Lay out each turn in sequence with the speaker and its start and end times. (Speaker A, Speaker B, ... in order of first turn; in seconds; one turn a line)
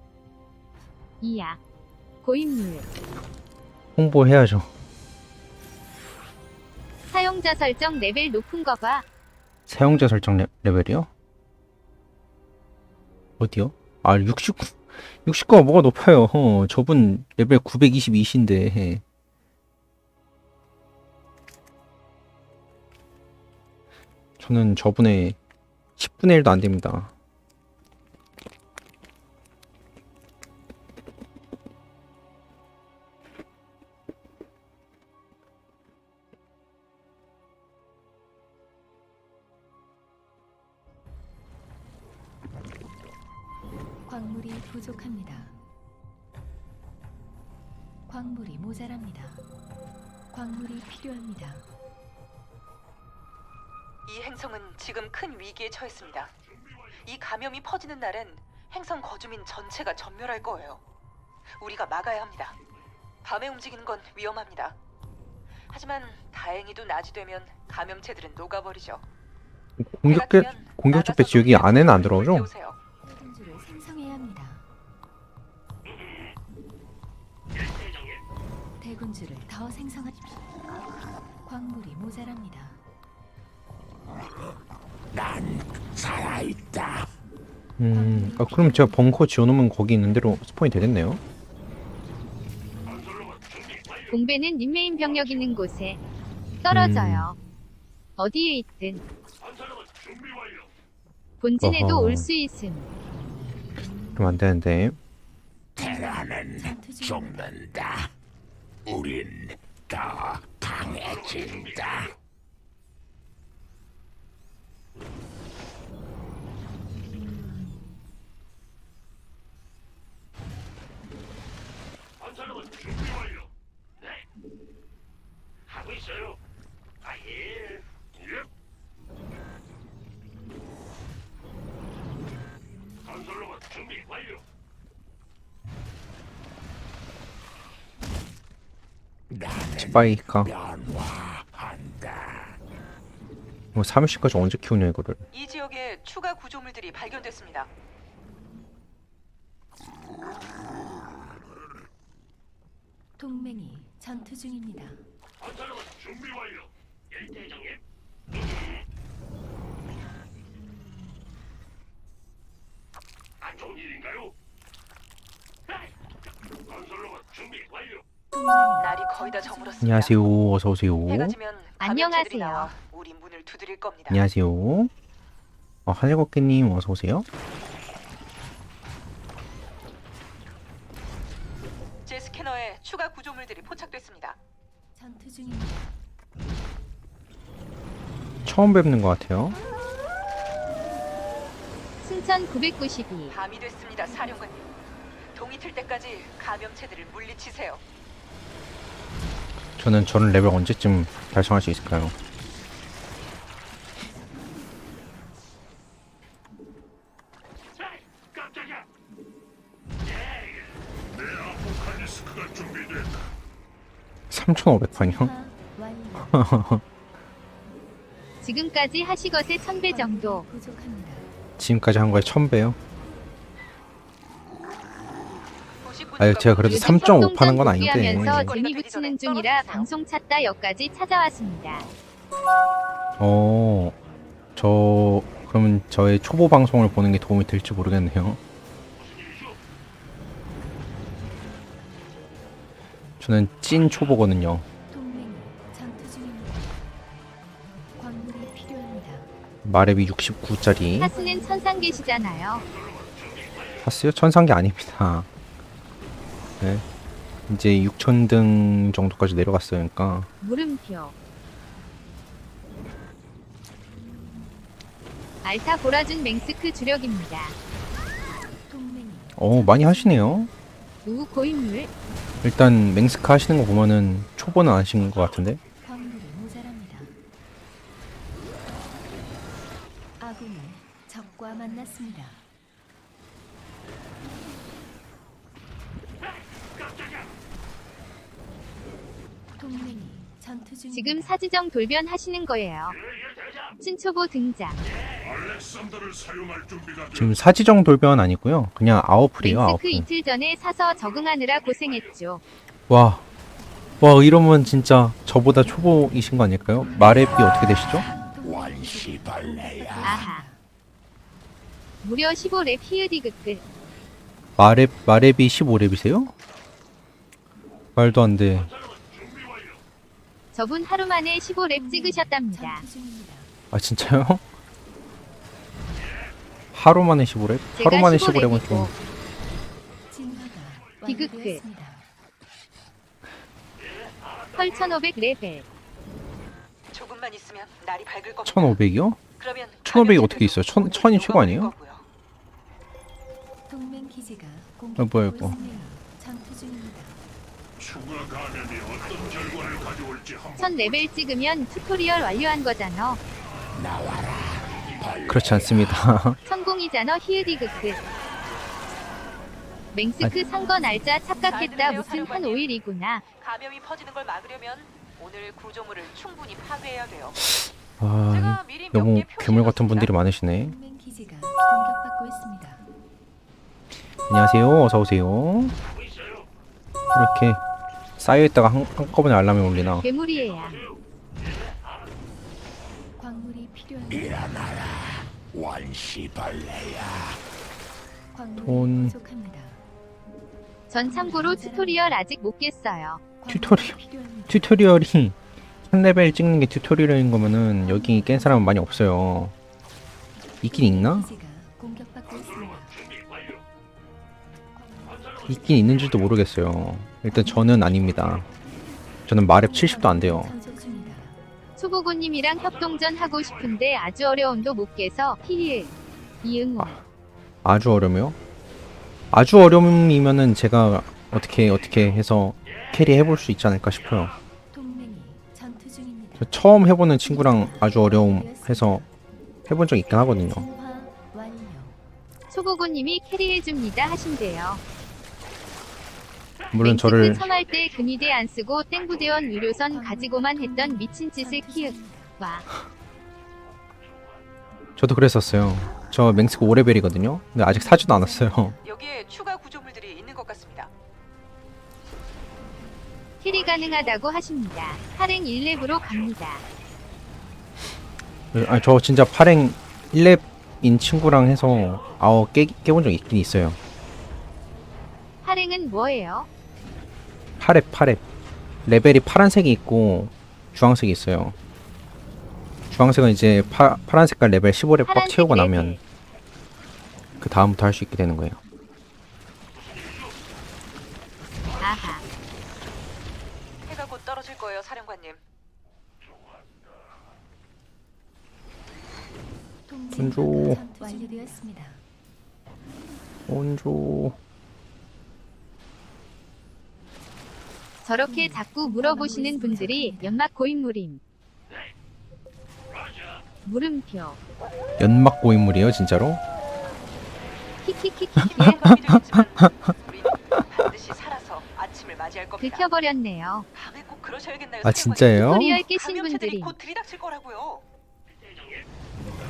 Speaker A: 1.2-1.6
Speaker A: 2.2-2.9
Speaker B: 4.0-4.7
Speaker A: 7.1-9.1
Speaker B: 9.7-11.1
Speaker B: 13.4-19.0
Speaker B: 24.4-25.4
Speaker B: 26.0-27.1
Speaker C: 44.1-45.5
Speaker C: 48.1-49.4
Speaker C: 50.3-51.6
Speaker D: 54.1-56.3
Speaker D: 57.0-60.8
Speaker D: 61.6-62.5
Speaker D: 63.2-64.7
Speaker D: 65.7-69.0
Speaker B: 69.8-72.5
Speaker D: 70.0-72.8
Speaker C: 73.0-74.7
Speaker C: 78.8-80.8
Speaker C: 81.4-82.8
Speaker E: 85.1-87.1
Speaker B: 87.8-91.2
Speaker C: 87.9-89.1
Speaker A: 94.1-96.0
Speaker A: 96.6-97.4
Speaker B: 96.7-97.3
Speaker A: 98.2-99.0
Speaker A: 101.4-102.9
Speaker B: 101.6-102.3
Speaker C: 103.9-104.2
Speaker B: 104.2-105.0
Speaker C: 105.8-107.5
Speaker E: 105.8-108.1
Speaker E: 108.8-112.1
Speaker E: 139.3-142.6
Speaker B: 139.8-140.5
Speaker B: 143.7-145.2
Speaker D: 145.3-147.7
Speaker C: 153.2-155.0
Speaker C: 168.3-170.2
Speaker D: 168.8-170.2
Speaker B: 169.8-171.4
Speaker D: 171.1-174.2
Speaker A: 171.8-172.7
Speaker B: 174.1-174.9
Speaker B: 175.8-177.2
Speaker D: 182.1-184.4
Speaker C: 184.9-186.0
Speaker B: 188.4-189.6
Speaker A: 192.0-193.3
Speaker D: 193.3-194.6
Speaker C: 194.0-194.6
Speaker D: 195.3-197.8
Speaker B: 199.8-202.1
Speaker F: 211.1-213.3
Speaker B: 214.3-215.3
Speaker C: 214.9-216.5
Speaker B: 216.2-216.8
Speaker A: 218.4-220.4
Speaker C: 219.9-221.3
Speaker B: 221.6-222.8
Speaker D: 225.8-229.9
Speaker B: 226.2-228.5
Speaker A: 226.7-231.8
Speaker B: 233.2-233.9
Speaker B: 234.6-238.4
Speaker B: 243.2-244.6
Speaker C: 244.9-246.9
Speaker C: 247.9-249.3
Speaker B: 249.6-251.1
Speaker C: 250.9-252.6
Speaker A: 251.0-252.6
Speaker B: 253.8-255.3
Speaker B: 257.5-260.3
Speaker A: 260.4-261.1
Speaker A: 265.4-267.5
Speaker C: 268.7-270.4
Speaker B: 269.4-270.5
Speaker A: 271.0-271.9
Speaker B: 272.4-275.6
Speaker C: 275.8-277.1
Speaker C: 280.2-282.4
Speaker C: 289.6-291.4
Speaker A: 290.9-293.0
Speaker A: 293.8-294.8
Speaker F: 295.2-297.4
Speaker B: 297.1-300.1
Speaker A: 299.4-302.4
Speaker B: 302.9-303.2
Speaker B: 304.0-308.1
Speaker C: 306.8-310.6
Speaker E: 307.4-310.3
Speaker A: 310.0-310.4
Speaker A: 312.0-313.6
Speaker B: 314.6-316.3
Speaker B: 317.9-318.7
Speaker A: 320.5-322.8
Speaker C: 321.7-323.5
Speaker B: 323.7-324.4
Speaker B: 326.7-328.9
Speaker A: 327.8-328.9
Speaker C: 330.1-332.1
Speaker A: 331.1-331.6
Speaker A: 334.6-335.6
Speaker D: 336.9-338.8
Speaker B: 338.4-339.2
Speaker D: 339.4-342.0
Speaker B: 339.8-341.7
Speaker C: 343.7-347.2
Speaker B: 345.0-345.6
Speaker F: 347.8-350.9
Speaker A: 350.6-353.2
Speaker E: 353.7-356.1
Speaker B: 355.3-356.4
Speaker A: 356.4-358.0
Speaker A: 359.9-363.2
Speaker C: 360.2-362.1
Speaker D: 361.4-362.7
Speaker D: 363.3-367.4
Speaker B: 367.4-370.8
Speaker D: 368.3-370.1
Speaker C: 370.6-372.9
Speaker B: 374.3-375.7
Speaker B: 377.1-377.6
Speaker B: 378.2-380.1
Speaker A: 380.0-380.8
Speaker C: 383.2-384.6
Speaker E: 384.1-387.4
Speaker C: 388.3-389.8
Speaker B: 388.6-389.1
Speaker A: 390.9-393.2
Speaker C: 391.0-392.2
Speaker C: 393.4-394.8
Speaker B: 393.5-394.0
Speaker B: 394.5-395.4
Speaker B: 395.9-399.5
Speaker C: 397.8-398.9
Speaker B: 400.6-401.3
Speaker C: 400.6-403.0
Speaker C: 404.7-405.5
Speaker B: 405.5-408.4
Speaker C: 407.3-408.0
Speaker B: 409.3-410.5
Speaker C: 409.5-411.4
Speaker A: 411.8-417.0
Speaker B: 416.8-417.0
Speaker B: 417.6-418.4
Speaker B: 419.3-424.3
Speaker C: 424.7-426.5
Speaker B: 426.4-429.0
Speaker C: 427.2-429.1
Speaker B: 429.7-430.7
Speaker C: 430.4-432.0
Speaker A: 432.5-434.8
Speaker B: 436.7-437.4
Speaker A: 436.8-442.7
Speaker C: 439.9-442.4
Speaker B: 445.0-448.7
Speaker C: 447.7-448.8
Speaker D: 448.8-450.9
Speaker A: 453.4-456.6
Speaker B: 458.5-463.8
Speaker A: 465.4-466.5
Speaker B: 467.6-468.2
Speaker B: 468.9-471.5
Speaker B: 472.9-476.0
Speaker A: 475.1-476.0
Speaker B: 477.4-478.6
Speaker A: 481.8-482.2
Speaker D: 483.9-485.4
Speaker C: 489.9-492.0
Speaker B: 490.1-490.8
Speaker B: 493.5-494.4
Speaker A: 498.0-501.2
Speaker C: 498.2-500.4
Speaker A: 503.6-504.4
Speaker B: 505.0-506.4
Speaker A: 507.8-508.9
Speaker B: 508.4-509.9
Speaker D: 508.4-512.9
Speaker A: 512.6-513.7
Speaker D: 513.7-517.8
Speaker B: 514.8-515.8
Speaker A: 515.4-516.7